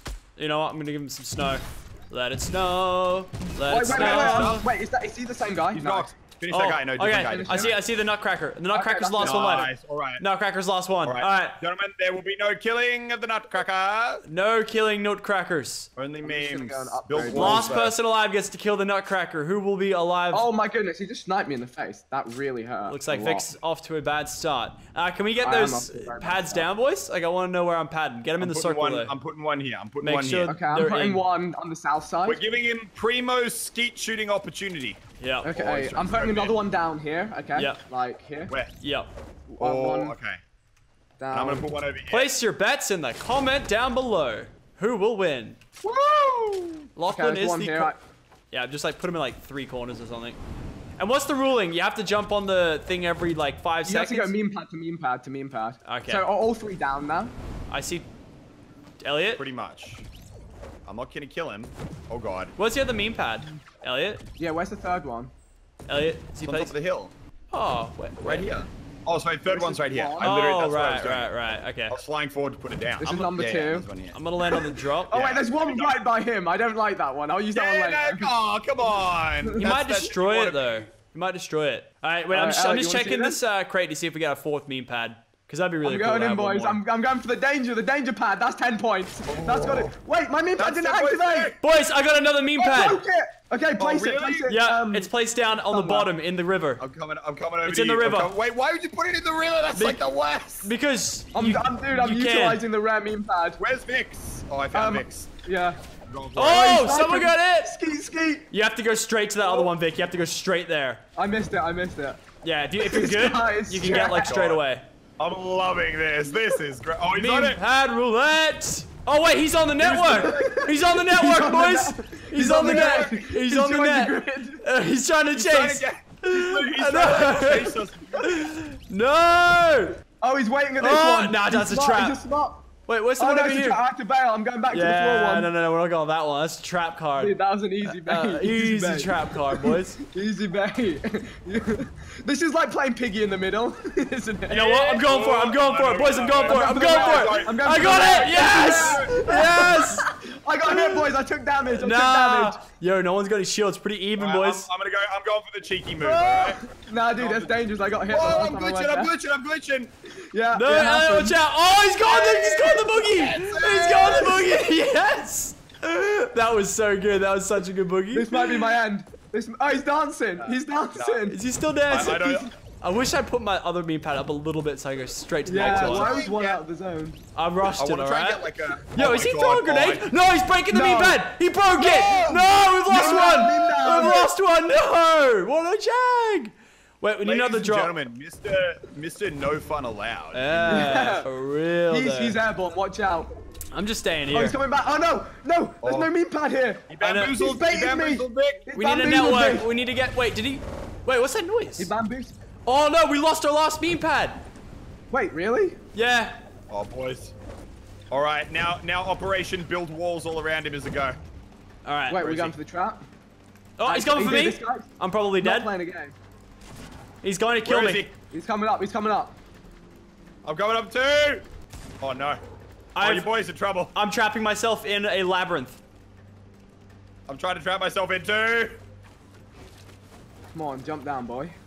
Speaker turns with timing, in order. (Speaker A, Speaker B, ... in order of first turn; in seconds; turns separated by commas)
Speaker A: 0.4-4.6, Speaker B: 3.7-6.1, Speaker C: 3.9-4.7, Speaker C: 5.7-7.8, Speaker A: 6.5-11.6, Speaker B: 7.0-7.8, Speaker B: 8.7-9.6, Speaker C: 9.2-10.2, Speaker C: 11.0-14.2, Speaker A: 14.3-15.9, Speaker C: 16.0-18.0, Speaker B: 16.2-17.8, Speaker A: 17.3-20.5, Speaker B: 20.3-23.5, Speaker A: 22.9-29.2, Speaker B: 25.4-26.7, Speaker C: 28.4-30.6, Speaker A: 30.0-31.2, Speaker B: 30.5-32.4, Speaker C: 32.2-36.5, Speaker A: 35.2-35.5, Speaker B: 35.4-38.5, Speaker A: 37.5-37.8, Speaker C: 38.5-38.7, Speaker A: 38.8-39.1, Speaker B: 39.5-40.2, Speaker C: 39.6-40.4, Speaker B: 41.2-41.7, Speaker C: 41.3-42.3, Speaker A: 42.1-45.6, Speaker B: 45.8-48.0, Speaker A: 47.0-47.9, Speaker A: 48.5-50.4, Speaker A: 51.0-54.3, Speaker B: 53.9-57.3, Speaker A: 55.9-56.2, Speaker A: 57.7-58.1, Speaker A: 59.0-59.4, Speaker C: 59.4-60.1, Speaker C: 60.9-62.5, Speaker A: 62.6-64.2, Speaker B: 64.4-65.3, Speaker A: 65.9-66.7, Speaker C: 66.4-67.1, Speaker A: 67.5-68.6, Speaker C: 68.2-71.3, Speaker B: 69.5-70.4, Speaker A: 70.2-72.0, Speaker C: 71.9-74.5, Speaker B: 73.0-73.9, Speaker A: 74.1-75.1, Speaker C: 75.1-76.0, Speaker B: 75.1-78.3, Speaker C: 77.5-80.8, Speaker A: 79.6-86.8, Speaker B: 82.3-83.4, Speaker B: 85.8-91.6, Speaker C: 89.3-90.0, Speaker C: 90.6-91.6, Speaker A: 91.6-93.0, Speaker B: 92.6-96.1, Speaker C: 93.8-94.5, Speaker A: 94.5-96.8, Speaker C: 96.8-100.7, Speaker A: 97.6-98.3, Speaker A: 99.8-100.0, Speaker A: 100.6-102.6, Speaker B: 101.3-103.6, Speaker C: 103.6-105.3, Speaker B: 104.7-105.8, Speaker C: 106.0-106.9, Speaker A: 106.4-107.8, Speaker B: 106.4-108.5, Speaker A: 108.5-111.0, Speaker B: 111.2-112.2, Speaker A: 112.4-114.9, Speaker B: 112.8-114.5, Speaker C: 113.8-114.6, Speaker C: 115.2-117.6, Speaker A: 117.1-130.0, Speaker C: 119.8-120.4, Speaker B: 120.2-124.6, Speaker C: 122.5-123.1, Speaker C: 125.3-128.5, Speaker B: 130.2-135.5, Speaker A: 130.8-132.2, Speaker A: 132.9-133.8, Speaker A: 134.7-137.3, Speaker B: 137.2-145.0, Speaker A: 137.8-140.0, Speaker A: 144.5-150.1, Speaker C: 144.9-149.2, Speaker B: 146.4-152.6, Speaker A: 151.7-154.7, Speaker C: 154.2-156.6, Speaker B: 156.0-159.1, Speaker C: 157.2-157.6, Speaker C: 158.1-159.9, Speaker B: 160.3-161.4, Speaker A: 160.5-168.7, Speaker C: 162.1-164.5, Speaker B: 168.1-171.4, Speaker C: 170.4-171.2, Speaker A: 171.3-176.2, Speaker C: 171.9-172.5, Speaker B: 175.5-177.2, Speaker C: 175.6-176.6, Speaker A: 177.3-187.9, Speaker C: 177.8-180.1, Speaker B: 180.7-181.3, Speaker C: 181.8-182.1, Speaker B: 181.9-184.3, Speaker C: 187.2-191.1, Speaker A: 190.3-192.4, Speaker B: 190.7-191.3, Speaker B: 191.9-193.3, Speaker A: 193.7-194.6, Speaker B: 194.3-199.7, Speaker C: 195.8-196.1, Speaker C: 196.9-198.7, Speaker A: 197.0-197.4, Speaker A: 198.8-201.9, Speaker B: 201.8-202.3, Speaker A: 202.7-204.4, Speaker B: 205.1-205.8, Speaker A: 205.9-206.4, Speaker C: 206.7-207.3, Speaker C: 208.1-211.2, Speaker A: 211.8-212.5, Speaker B: 212.1-213.0, Speaker A: 213.8-215.7, Speaker B: 213.9-216.2, Speaker A: 217.2-218.1, Speaker C: 217.6-218.1, Speaker B: 218.3-219.4, Speaker C: 220.4-221.4, Speaker C: 222.0-222.4, Speaker A: 222.9-223.3, Speaker C: 223.0-223.9, Speaker A: 223.9-225.8, Speaker C: 227.3-228.8, Speaker B: 230.5-231.6